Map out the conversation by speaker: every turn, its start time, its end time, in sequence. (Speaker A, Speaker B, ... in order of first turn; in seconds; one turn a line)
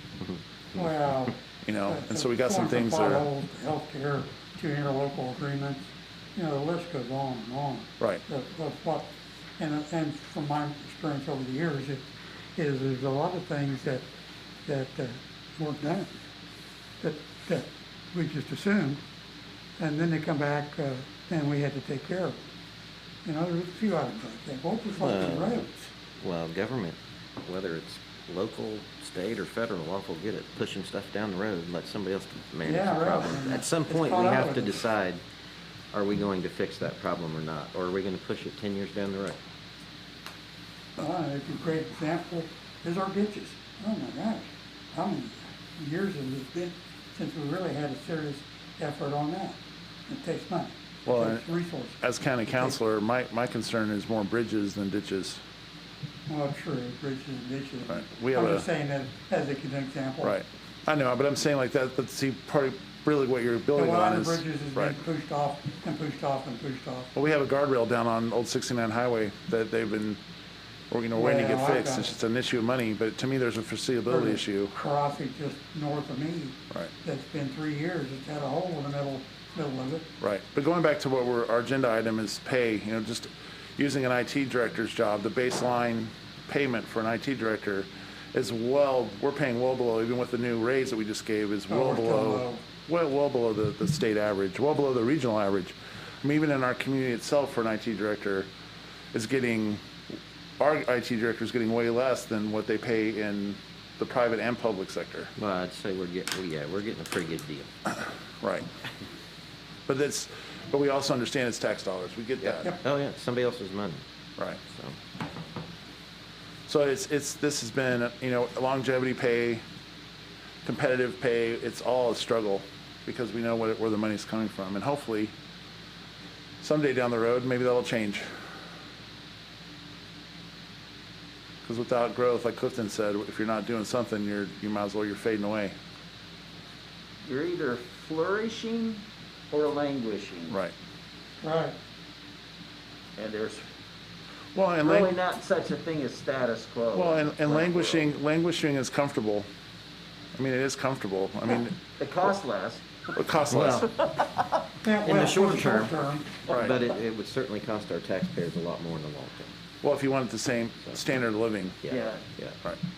Speaker A: 0.7-14.1
Speaker B: 1.6-3.3
Speaker A: 14.7-16.1
Speaker A: 17.0-19.0
Speaker A: 19.8-22.4
Speaker A: 23.2-25.9
Speaker C: 25.0-25.7
Speaker C: 26.2-35.2
Speaker A: 32.6-34.8
Speaker C: 35.9-39.4
Speaker A: 41.0-52.7
Speaker B: 51.0-51.5
Speaker B: 52.0-55.4
Speaker A: 56.3-60.4
Speaker B: 57.9-58.7
Speaker B: 60.2-65.0
Speaker A: 63.7-67.1
Speaker B: 67.2-70.2
Speaker B: 70.9-74.8
Speaker A: 71.2-72.2
Speaker A: 74.1-80.1
Speaker B: 80.2-98.5
Speaker A: 91.7-92.6
Speaker B: 99.1-99.8
Speaker B: 100.6-105.3
Speaker C: 105.4-107.7
Speaker B: 108.4-108.7
Speaker B: 109.9-112.8
Speaker C: 112.4-114.0
Speaker C: 114.7-115.0
Speaker B: 116.7-119.6
Speaker B: 120.7-125.3
Speaker B: 126.6-128.3
Speaker B: 131.6-135.8
Speaker D: 137.2-140.6
Speaker A: 141.4-141.8
Speaker D: 143.2-143.7
Speaker B: 144.6-145.2
Speaker D: 144.8-148.1
Speaker B: 146.9-149.5
Speaker B: 150.4-151.8
Speaker D: 152.0-152.8
Speaker B: 153.2-153.9
Speaker C: 153.5-154.5
Speaker A: 154.8-156.3
Speaker C: 155.0-156.0
Speaker C: 156.5-159.5
Speaker B: 156.5-156.8
Speaker B: 159.8-161.8
Speaker C: 161.8-162.6
Speaker D: 161.9-162.2